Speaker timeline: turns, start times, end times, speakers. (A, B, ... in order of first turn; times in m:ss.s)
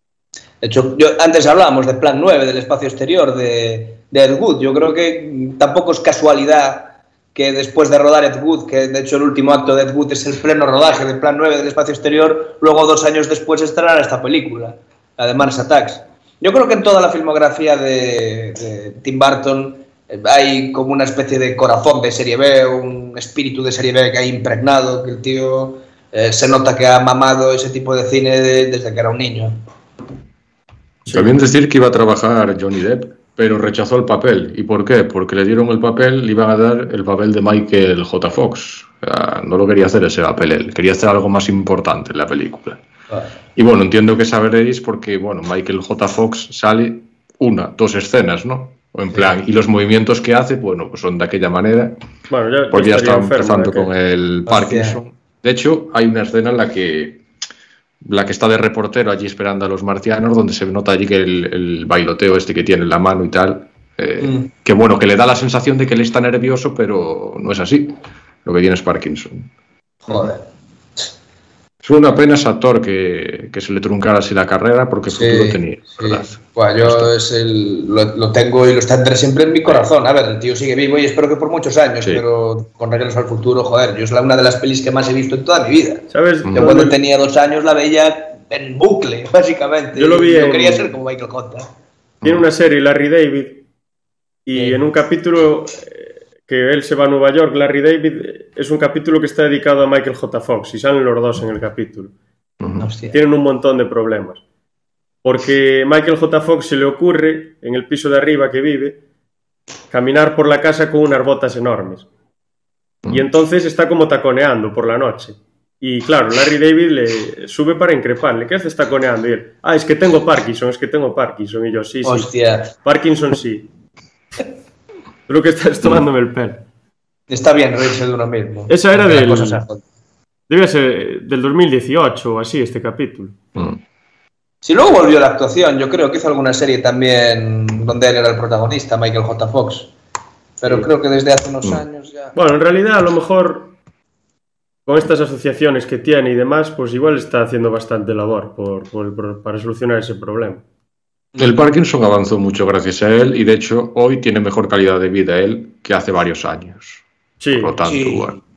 0:00.6-0:29.6 A
0:31.0-0:31.4 B
0:31.1-0:42.8 C
0:43.5-0:52.0 C
0:52.3-0:53.9 B
0:52.7-0:57.2 C
0:54.5-0:55.0 A
0:58.0-1:09.5 C
1:04.2-1:04.5 A
1:10.1-1:10.4 A
1:11.8-1:17.1 C
1:15.1-1:31.7 A
1:26.1-1:27.0 B
1:26.4-1:26.8 C
1:29.9-1:30.9 B
1:32.2-1:33.6 B
1:34.4-1:42.1 B
1:42.6-1:42.9 C
1:42.8-1:43.2 A
1:43.1-1:44.4 B
1:45.2-1:49.0 B
1:49.9-1:52.1 B
1:53.1-2:03.7 B
2:02.0-2:02.7 A
2:05.3-2:06.6 B
2:07.3-2:09.8 A
2:08.7-2:09.6 B
2:10.5-2:13.4 B
2:13.5-2:13.8 C
2:14.6-2:19.9 A
2:20.6-2:22.3 A
2:20.6-2:20.9 B
2:22.3-2:23.7 B
2:24.8-2:30.6 B
2:31.4-2:38.4 C
2:37.4-2:37.7 B
2:37.8-2:38.3 A